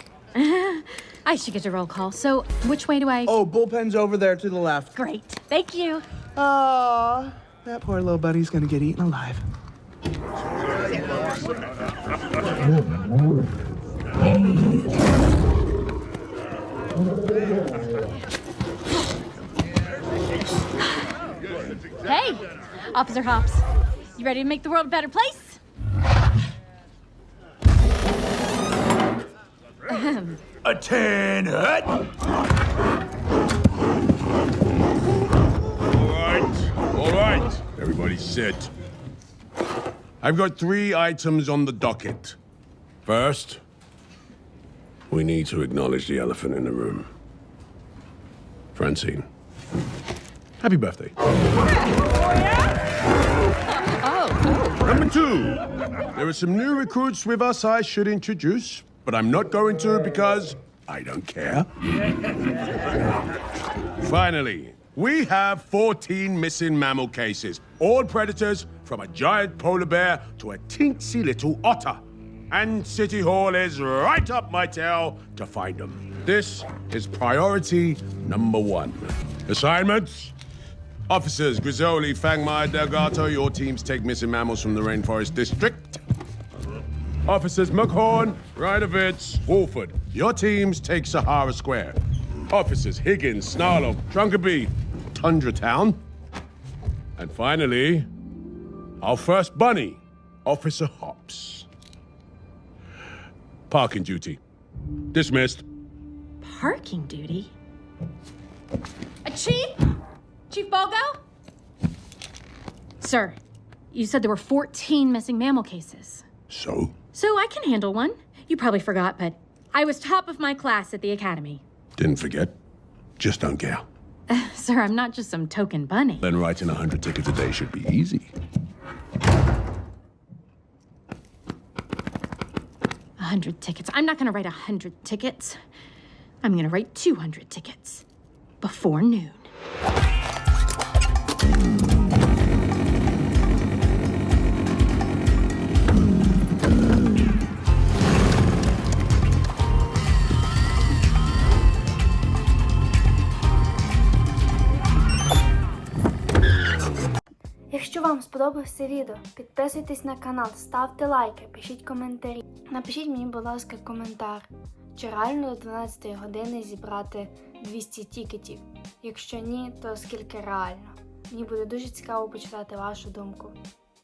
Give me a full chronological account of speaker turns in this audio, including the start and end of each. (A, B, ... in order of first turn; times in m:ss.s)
0:00.4-0:03.4 A
0:03.3-0:04.9 B
0:05.0-0:06.0 A
0:06.4-0:09.4 B
0:22.0-0:23.6 A
0:24.2-0:25.6 A
0:29.9-0:30.4 A
0:30.6-0:32.0 C
0:35.8-0:38.7 C
0:40.2-0:42.4 C
0:43.1-0:43.6 C
0:45.1-0:47.1 C
0:48.8-0:49.3 C
0:50.6-0:51.1 C
0:54.0-0:54.7 A
0:54.8-0:55.6 C
0:56.1-1:01.7 C
1:04.0-1:20.3 C
1:21.1-1:26.0 C
1:27.3-1:32.0 C
1:32.5-1:36.0 C
1:37.2-1:38.1 C
1:39.0-1:41.7 C
1:43.7-1:44.4 C
1:45.1-1:45.6 C
1:46.4-1:47.5 A
1:49.2-1:49.8 A
1:50.5-1:51.2 A
1:53.0-1:53.4 A
1:53.9-1:56.2 A
1:56.5-1:57.0 C
1:57.1-2:01.6 A
2:02.0-2:02.6 C
2:03.2-2:03.9 C
2:04.3-2:06.3 A
2:06.2-2:08.3 C
2:13.2-2:15.6 A
2:16.4-2:18.0 A
2:18.6-2:19.5 A
2:37.7-2:53.6 D